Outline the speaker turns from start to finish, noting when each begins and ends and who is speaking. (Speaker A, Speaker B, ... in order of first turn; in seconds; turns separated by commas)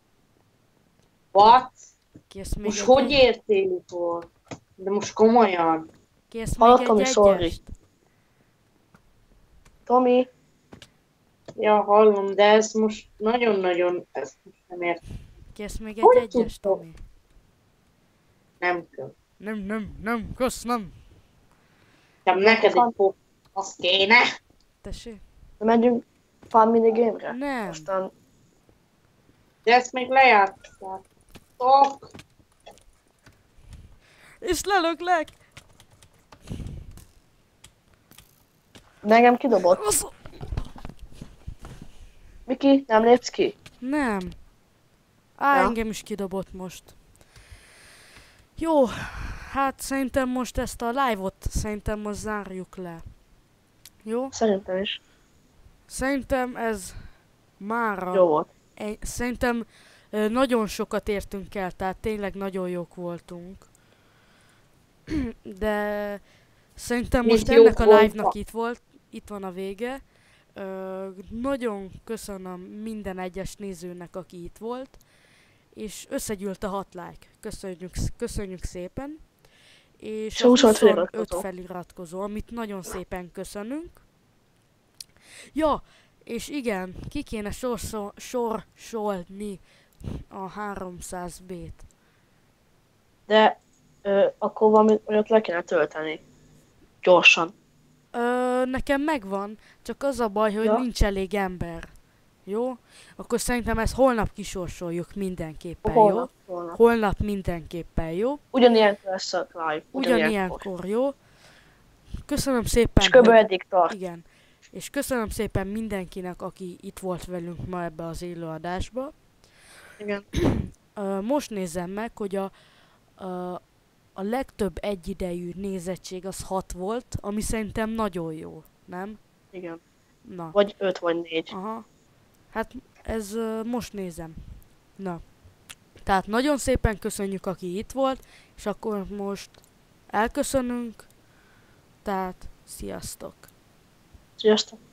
Speaker A: 1.3-1.8, Speaker B: 2.3-3.2, Speaker A: 2.6-5.9, Speaker B: 6.3-7.7, Speaker C: 6.6-7.5, Speaker C: 9.9-10.3, Speaker A: 11.6-15.0, Speaker B: 15.5-17.0, Speaker A: 16.0-16.8, Speaker A: 18.6-19.1, Speaker B: 19.4-21.0, Speaker A: 22.2-24.3, Speaker C: 22.4-22.9, Speaker B: 24.8-25.2, Speaker C: 25.6-28.1, Speaker B: 27.3-27.9, Speaker A: 29.6-31.0, Speaker A: 31.6-32.1, Speaker B: 34.4-35.3, Speaker C: 39.0-39.8, Speaker B: 39.7-40.3, Speaker C: 42.5-43.5, Speaker B: 43.8-44.4, Speaker B: 45.4-46.9, Speaker B: 48.6-53.1, Speaker B: 54.0-54.3, Speaker C: 54.3-55.0, Speaker B: 55.9-63.7, Speaker C: 58.1-58.5, Speaker B: 65.4-75.0, Speaker A: 67.2-68.3, Speaker B: 75.7-79.3, Speaker B: 80.0-84.0, Speaker C: 80.3-81.4, Speaker B: 85.5-91.8, Speaker C: 93.3-96.2, Speaker C: 97.0-97.5, Speaker B: 98.1-101.9, Speaker B: 102.5-108.4, Speaker C: 105.8-106.8, Speaker C: 108.5-110.6, Speaker B: 109.9-111.2, Speaker B: 112.2-119.2, Speaker C: 113.0-114.0, Speaker C: 120.0-120.2, Speaker B: 120.5-122.5, Speaker B: 123.1-123.6, Speaker B: 124.1-129.2, Speaker C: 129.5-129.8, Speaker B: 130.2-130.6, Speaker C: 130.5-131.5, Speaker B: 131.5-131.8, Speaker B: 132.5-135.2, Speaker B: 136.0-139.6, Speaker B: 140.1-141.1, Speaker B: 142.0-143.5, Speaker C: 144.4-144.8